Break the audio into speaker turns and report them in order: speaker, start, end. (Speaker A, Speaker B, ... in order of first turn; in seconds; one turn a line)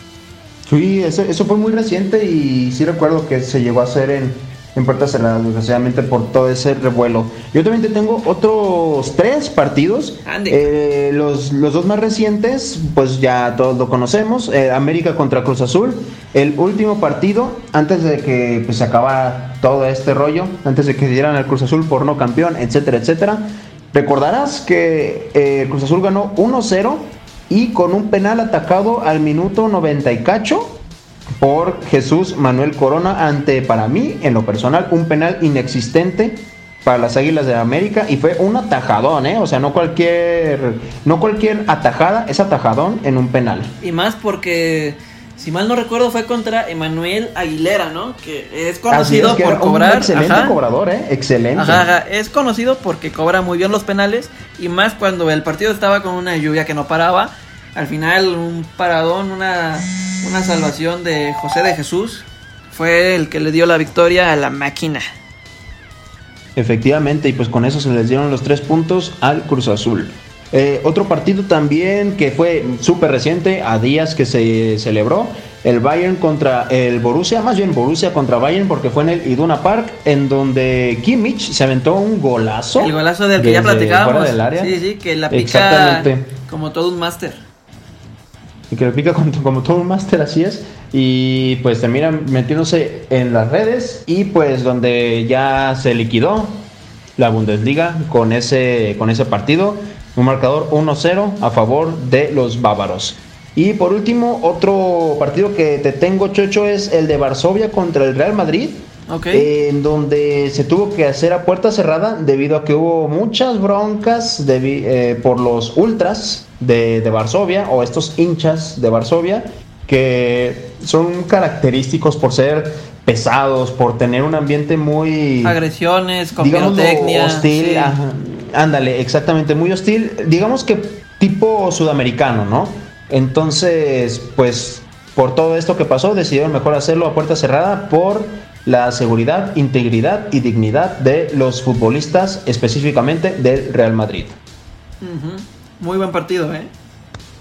Speaker A: 0.7-30.8
Speaker B: 10.3-10.7
Speaker A: 31.4-43.8
Speaker B: 43.8-50.6
Speaker A: 48.9-51.9
Speaker B: 51.5-65.1
Speaker A: 66.6-84.8
Speaker B: 82.8-87.4
Speaker A: 85.3-86.3
Speaker A: 88.7-125.6
Speaker B: 109.1-109.5
Speaker B: 125.4-128.0
Speaker A: 126.4-144.4
Speaker B: 145.0-146.7